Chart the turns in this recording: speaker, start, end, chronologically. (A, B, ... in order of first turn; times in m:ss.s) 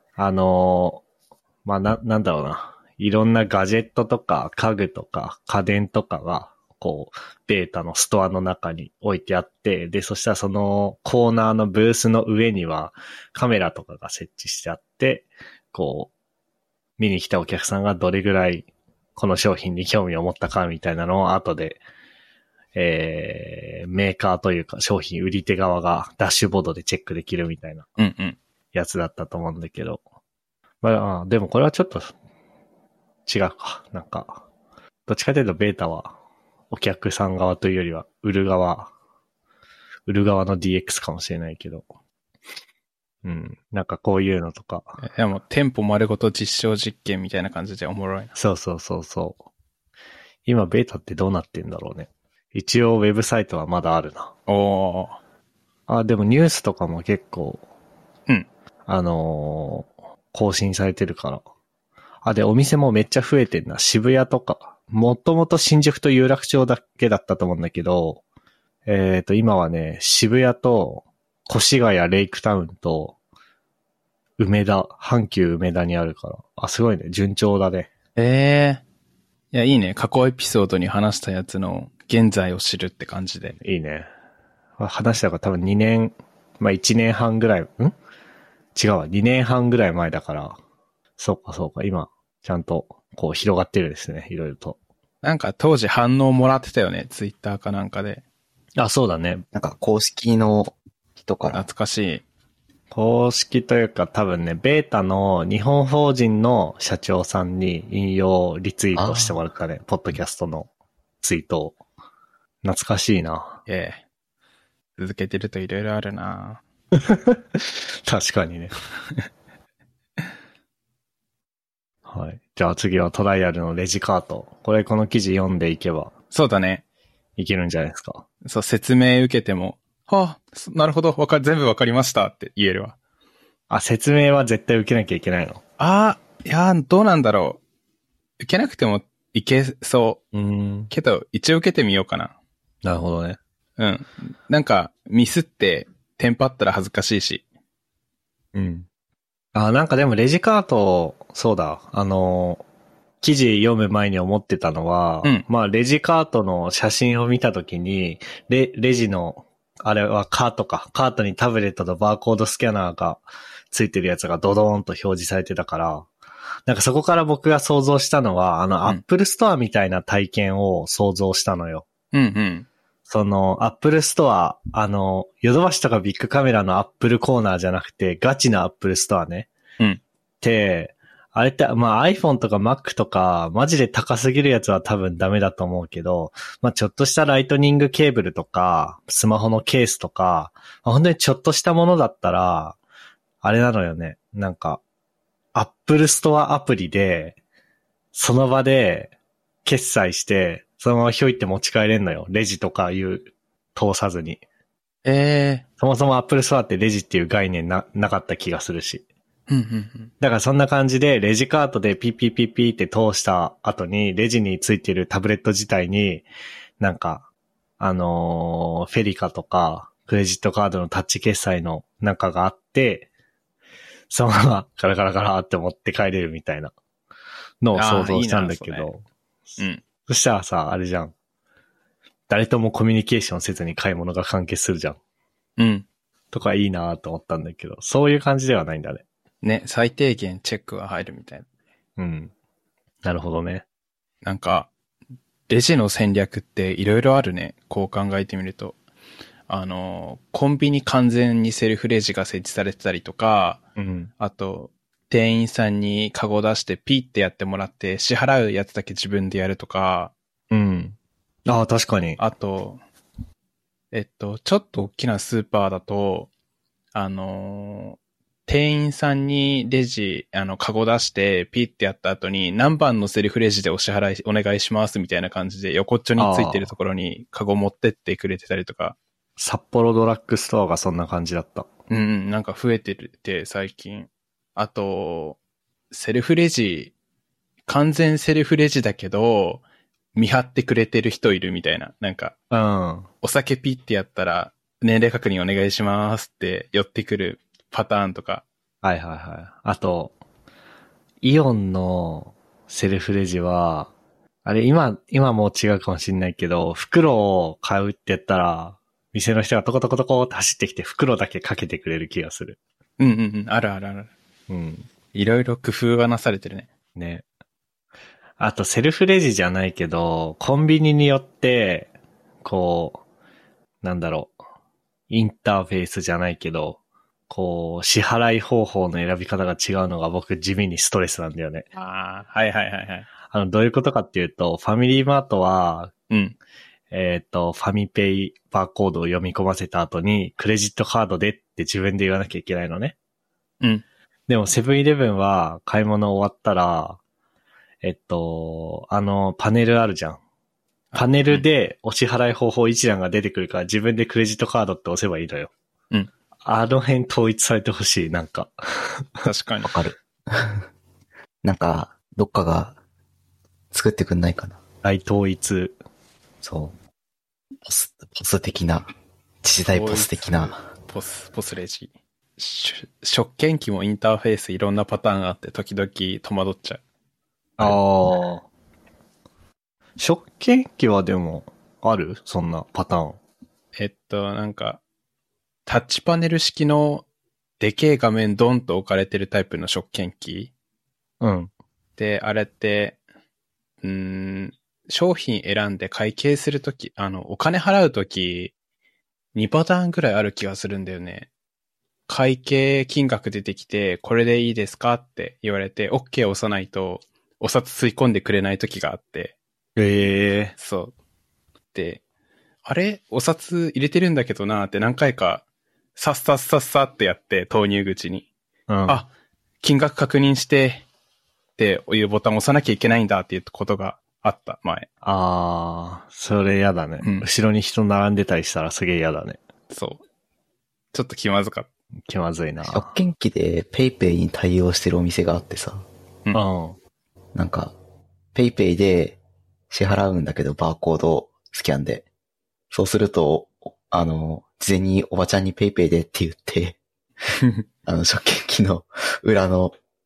0:00.2-0:01.0 A
0:01.6-0:16.1 A
0:17.0-0:21.8 A
0:22.8-0:27.9 A
0:28.0-0:28.4 B
0:28.7-0:30.0 A
0:30.8-0:32.1 A
0:33.3-0:34.4 A
0:35.1-0:36.1 A
0:36.7-0:38.9 A
0:40.1-0:41.8 A
0:43.2-0:45.0 A
0:45.0-0:48.4 B
0:48.4-0:49.4 A
0:50.5-0:54.3 A
0:54.5-0:55.2 B
0:55.9-0:57.6 A
0:58.9-1:01.4 A
1:02.2-1:08.2 A
1:08.9-1:13.2 A
1:14.4-1:17.9 A
1:18.2-1:18.8 B
1:19.5-1:23.6 B
1:23.6-1:24.1 A
1:24.8-1:27.9 A
1:28.8-1:30.6 A
1:31.2-1:34.8 A
1:35.2-1:38.2 B
1:38.8-1:39.4 A
1:39.5-1:41.7 C
1:41.5-1:42.2 B
1:42.9-1:50.7 A
1:49.0-1:49.4 C
1:51.2-1:51.8 A
1:52.6-1:53.6 A
1:53.7-1:54.0 B
1:55.0-1:56.6 B
1:57.0-1:58.7 A
2:02.1-2:06.1 A
2:06.3-2:06.8 B
2:07.4-2:08.2 A
2:08.4-2:13.0 B
2:13.7-2:15.6 A
2:15.8-2:17.6 B
2:18.4-2:20.2 B
2:20.3-2:20.9 A
2:20.9-2:22.3 B
2:22.8-2:23.4 A
2:23.8-2:27.4 B
2:28.5-2:28.9 A
2:29.5-2:32.6 A
2:33.2-2:46.1 A
2:46.7-2:51.9 A
2:52.1-2:52.7 B
2:53.1-2:59.5 A
3:00.4-3:12.8 A
3:13.4-3:14.8 A
3:15.6-3:17.4 A
3:18.1-3:19.1 A
3:19.6-3:24.4 A
3:25.0-3:25.6 B
3:25.8-3:29.1 A
3:29.5-3:30.1 B
3:30.2-3:36.2 A
3:36.8-3:37.2 A
3:37.8-3:43.1 A
3:44.1-3:46.7 A
3:47.6-3:51.1 A
3:47.7-3:48.9 B
3:52.3-3:55.0 A
3:55.6-3:55.9 B
3:56.3-3:59.0 A
3:59.4-4:01.5 B
4:02.0-4:02.3 A
4:03.0-4:03.6 A
4:04.2-4:04.7 B
4:05.5-4:08.8 B
4:09.5-4:13.6 B
4:13.8-4:14.1 A
4:14.2-4:20.1 B
4:20.5-4:21.0 A
4:21.5-4:22.2 A
4:22.2-4:22.8 B
4:23.9-4:26.3 B
4:26.9-4:39.0 B
4:36.2-4:36.7 A
4:39.4-4:41.7 A
4:41.9-4:45.4 B
4:45.9-4:46.9 B
4:47.7-4:49.6 B
4:50.2-4:52.3 B
4:52.5-4:53.1 A
4:53.2-4:58.4 B
4:58.8-5:00.2 A
5:01.2-5:03.9 A
5:04.4-5:12.6 A
5:13.0-5:14.1 B
5:14.5-5:14.9 A
5:15.1-5:16.7 B
5:17.0-5:17.2 A
5:18.4-5:21.9 A
5:22.4-5:23.0 A
5:23.8-5:24.4 A
5:25.1-5:31.7 A
5:31.8-5:33.1 B
5:33.3-5:35.9 A
5:36.1-5:36.4 B
5:36.9-5:43.0 A
5:44.3-5:47.0 A
5:47.8-5:50.2 A
5:50.9-5:51.4 B
5:51.0-5:55.5 A
5:56.5-5:59.2 A
5:59.2-5:59.7 B
5:59.6-6:00.7 C
6:01.4-6:02.8 C
6:03.7-6:04.6 C
6:04.8-6:05.8 A
6:06.4-6:06.8 C
6:07.6-6:08.9 C
6:09.4-6:10.6 C
6:09.7-6:16.8 B
6:17.6-6:18.4 A
6:20.0-6:23.2 A
6:23.8-6:24.8 B
6:25.7-6:27.0 B
6:27.6-6:30.5 B
6:31.2-6:31.5 A
6:32.0-6:33.0 B
6:33.8-6:38.5 B
6:39.4-6:41.3 B
6:42.1-6:49.4 B
6:49.8-6:50.5 A
6:50.6-6:50.9 B
6:51.7-6:52.0 B
6:52.6-6:55.4 B
6:56.0-6:58.3 B
6:58.7-6:59.0 A
6:59.6-7:00.8 B
7:01.6-7:04.9 B
7:05.0-7:09.4 A
7:07.0-7:07.3 B
7:09.7-7:10.0 B
7:10.9-7:11.7 B
7:12.1-7:12.9 A
7:12.6-7:15.9 C
7:16.3-7:16.8 A
7:17.4-7:17.8 C
7:18.3-7:19.2 C
7:19.7-7:22.1 C
7:22.7-7:26.8 C
7:27.9-7:29.8 C